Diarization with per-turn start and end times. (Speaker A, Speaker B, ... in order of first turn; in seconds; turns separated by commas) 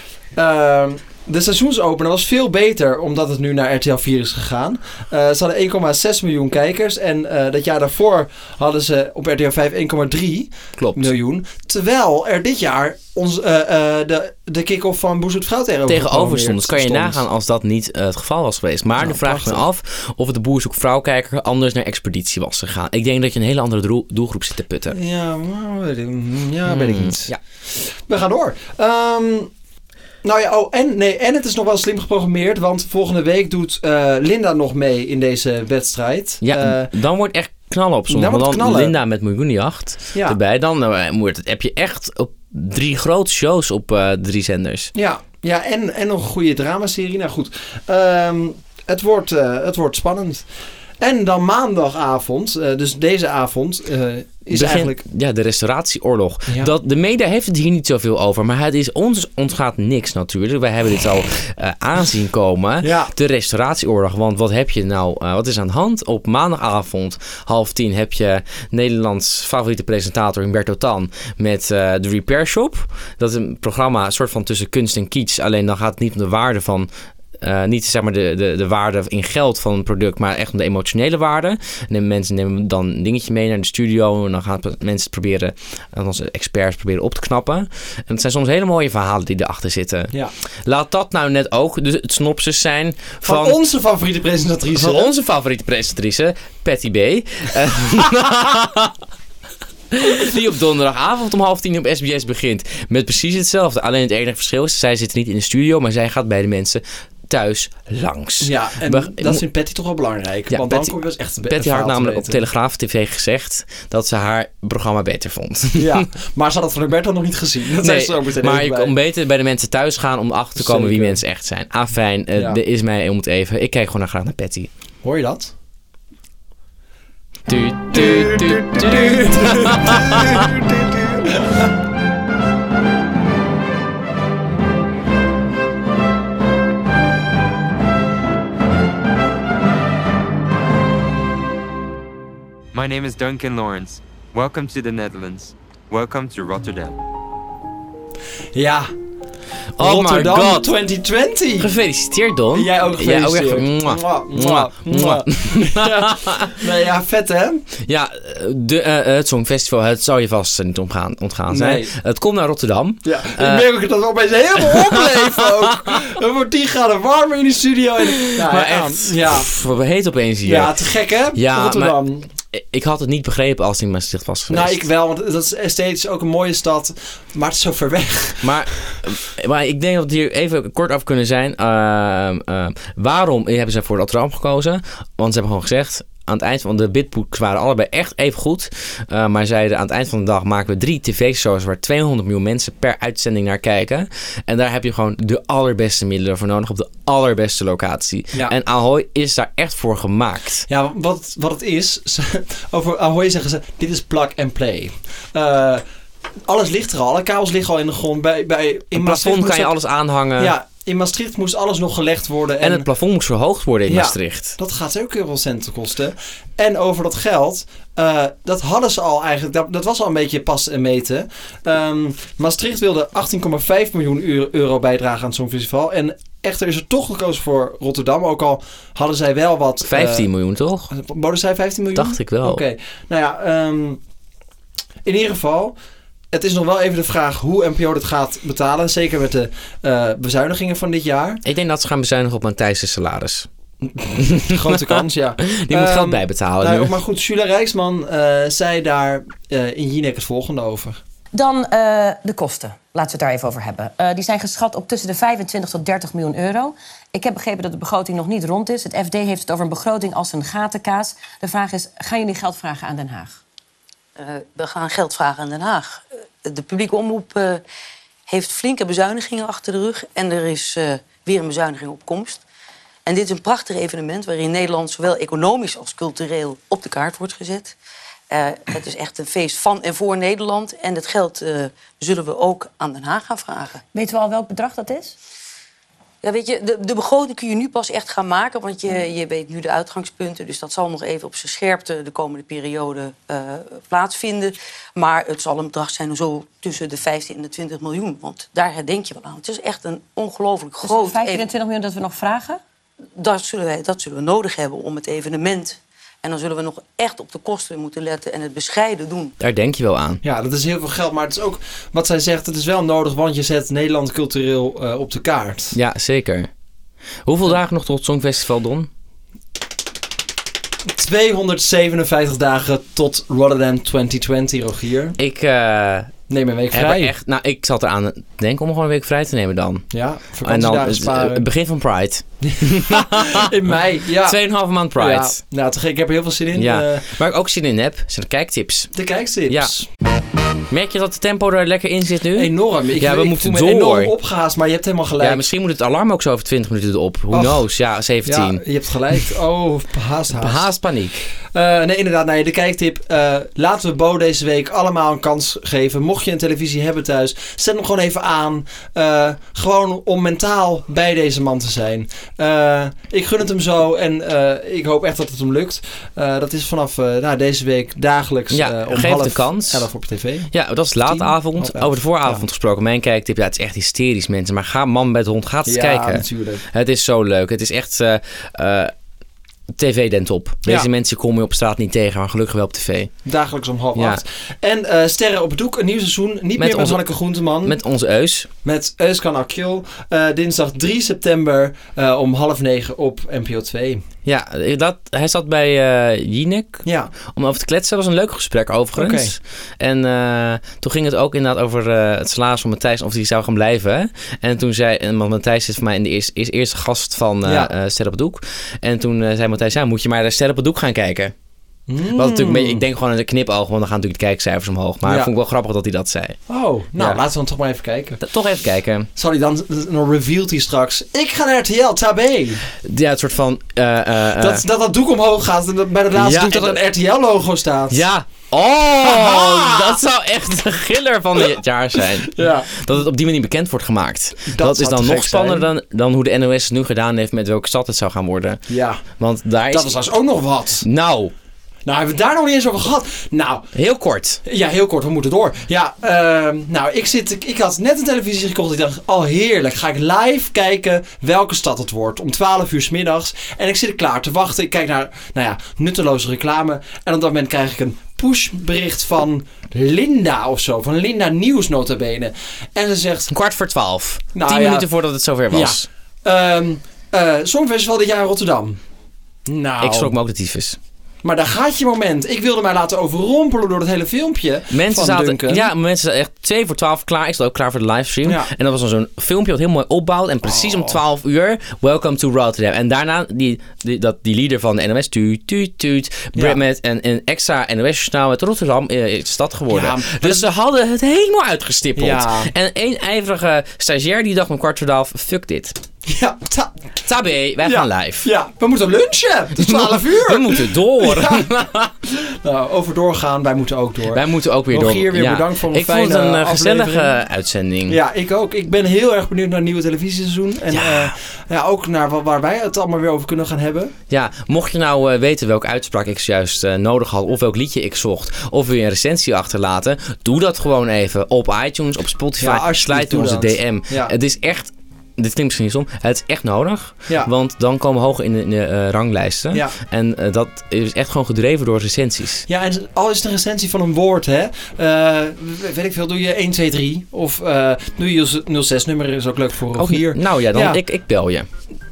Speaker A: 0.3-17.2, Speaker B: 10.8-11.1, Speaker B: 15.9-25.0, Speaker A: 19.0-19.7, Speaker A: 24.9-29.5, Speaker B: 26.7-27.4, Speaker A: 30.2-36.9, Speaker B: 36.4-44.9, Speaker A: 38.1-39.0, Speaker A: 44.9-50.5, Speaker A: 51.0-55.0, Speaker B: 54.5-76.9, Speaker A: 56.5-56.7, Speaker A: 62.8-63.1, Speaker B: 77.4-90.1, Speaker B: 90.6-93.6, Speaker A: 93.2-95.1, Speaker B: 94.7-98.9, Speaker B: 99.9-109.4, Speaker A: 108.4-112.4, Speaker B: 110.5-116.0, Speaker A: 115.8-118.9, Speaker B: 117.8-124.7, Speaker A: 120.5-121.2, Speaker A: 122.3-122.6, Speaker A: 125.0-125.5, Speaker B: 127.5-130.5, Speaker A: 127.9-131.7, Speaker C: 142.7-147.0, Speaker A: 148.5-148.9, Speaker B: 149.8-150.7, Speaker A: 149.8-151.8, Speaker B: 151.6-156.6, Speaker A: 152.5-157.7, Speaker B: 157.8-163.7, Speaker A: 161.5-161.9, Speaker A: 163.0-169.5, Speaker B: 164.7-166.0, Speaker B: 168.2-170.7, Speaker A: 170.4-172.3, Speaker B: 171.3-174.9, Speaker A: 174.5-178.6, Speaker B: 178.4-200.7, Speaker A: 200.7-205.8, Speaker A: 206.4-209.7, Speaker B: 208.9-210.5, Speaker A: 210.4-212.9, Speaker B: 212.6-214.5, Speaker A: 213.8-230.3, Speaker B: 229.8-230.9, Speaker A: 230.9-234.0, Speaker B: 231.9-232.6, Speaker A: 235.0-235.8, Speaker A: 236.3-241.4, Speaker B: 241.4-243.5, Speaker A: 243.8-251.0, Speaker B: 244.2-246.9, Speaker D: 251.3-263.4, Speaker E: 264.2-267.6, Speaker E: 268.3-272.4, Speaker E: 273.1-277.8, Speaker E: 278.3-283.8, Speaker D: 283.9-285.1, Speaker E: 286.2-301.4, Speaker D: 300.8-302.6, Speaker E: 303.2-309.3, Speaker B: 309.4-310.2, Speaker A: 310.2-315.8, Speaker B: 315.7-316.5, Speaker B: 317.2-318.9, Speaker A: 320.9-325.2, Speaker B: 325.2-326.1, Speaker A: 326.3-327.1, Speaker B: 326.7-329.9, Speaker A: 329.9-331.5, Speaker B: 330.4-333.5, Speaker A: 332.4-337.1, Speaker B: 334.2-335.4, Speaker B: 336.5-338.9, Speaker A: 338.9-339.9, Speaker B: 340.7-344.1, Speaker A: 342.3-345.4, Speaker B: 345.2-348.6, Speaker A: 347.3-347.7, Speaker A: 348.2-350.6, Speaker B: 350.3-351.2, Speaker A: 351.4-372.4, Speaker B: 368.5-369.9, Speaker B: 370.5-378.9, Speaker A: 375.6-376.6, Speaker B: 379.7-383.1, Speaker A: 383.2-387.8, Speaker B: 383.9-384.2, Speaker B: 386.6-387.1, Speaker B: 387.6-388.5, Speaker A: 388.6-394.0, Speaker B: 394.2-411.3, Speaker A: 396.8-397.1, Speaker A: 398.9-399.4, Speaker A: 407.4-407.7, Speaker A: 411.9-412.8, Speaker B: 412.1-416.4, Speaker A: 415.0-415.3, Speaker A: 416.5-418.2, Speaker B: 418.2-419.1, Speaker A: 419.1-422.6, Speaker B: 422.8-424.6, Speaker A: 424.3-428.0, Speaker B: 426.1-426.8, Speaker B: 427.9-438.6, Speaker A: 429.0-430.0, Speaker A: 432.2-432.8, Speaker A: 434.4-435.7, Speaker A: 438.7-439.0, Speaker B: 439.2-440.0, Speaker A: 439.7-440.9, Speaker B: 440.8-441.3, Speaker A: 441.8-443.7, Speaker B: 443.7-444.4, Speaker A: 444.4-463.3, Speaker B: 463.3-465.9, Speaker A: 464.3-464.9, Speaker A: 465.5-468.8, Speaker A: 469.4-470.1, Speaker B: 469.8-470.8, Speaker A: 471.2-475.7, Speaker B: 474.7-495.8, Speaker A: 478.2-478.5, Speaker A: 480.4-481.0, Speaker A: 486.3-486.6, Speaker A: 489.7-490.5, Speaker A: 491.9-492.5, Speaker A: 496.1-496.7, Speaker B: 497.0-498.2, Speaker A: 497.6-501.5, Speaker B: 499.6-501.9, Speaker A: 502.1-507.1, Speaker B: 504.1-508.0, Speaker A: 507.9-513.9, Speaker B: 510.7-511.1, Speaker B: 514.1-532.5, Speaker A: 522.4-524.1, Speaker A: 532.5-540.8, Speaker B: 539.8-541.5